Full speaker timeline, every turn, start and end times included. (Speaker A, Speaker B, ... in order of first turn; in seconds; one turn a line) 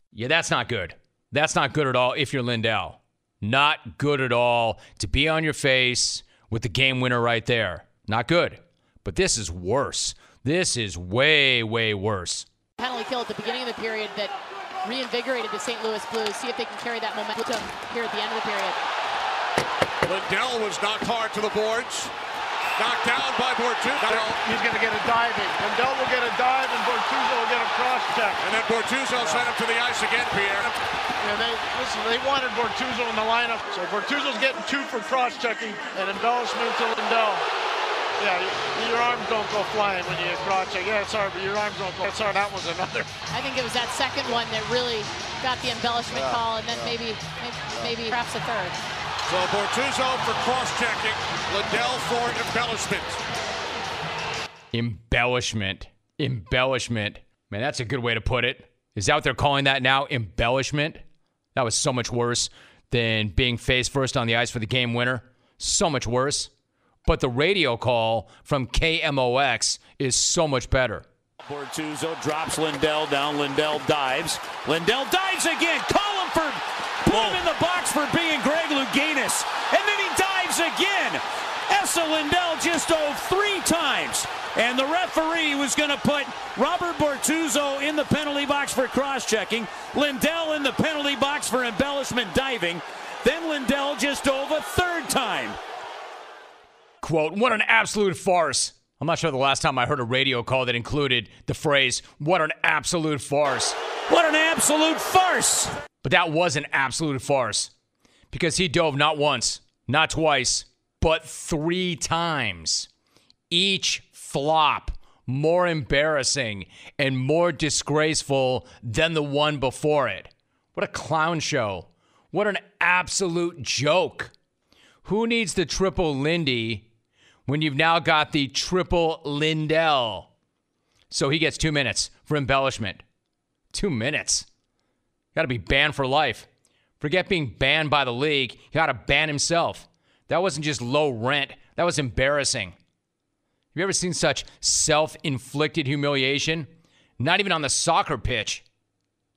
Speaker A: 0.1-12.5
Speaker B: 12.8-14.3
Speaker B: 14.8-18.8
Speaker C: 20.0-22.1
Speaker C: 22.8-24.4
Speaker D: 24.0-28.4
Speaker C: 28.4-30.7
Speaker D: 29.2-29.5
Speaker D: 30.6-37.5
Speaker D: 38.2-43.1
Speaker B: 43.3-48.8
Speaker D: 46.1-47.0
Speaker D: 47.8-48.2
Speaker C: 49.3-53.2
Speaker A: 54.7-61.0
Speaker A: 61.5-66.5
Speaker A: 67.1-71.0
Speaker E: 71.4-95.6
Speaker A: 97.0-103.8
Speaker E: 104.1-105.7
Speaker A: 106.0-107.7
Speaker A: 108.3-112.9
Speaker A: 113.5-124.3
Speaker A: 125.0-126.9
Speaker A: 127.5-130.3
Speaker A: 131.1-133.0
Speaker A: 133.7-134.5
Speaker A: 135.3-136.5
Speaker A: 137.0-142.8
Speaker A: 143.7-146.7
Speaker A: 147.2-148.6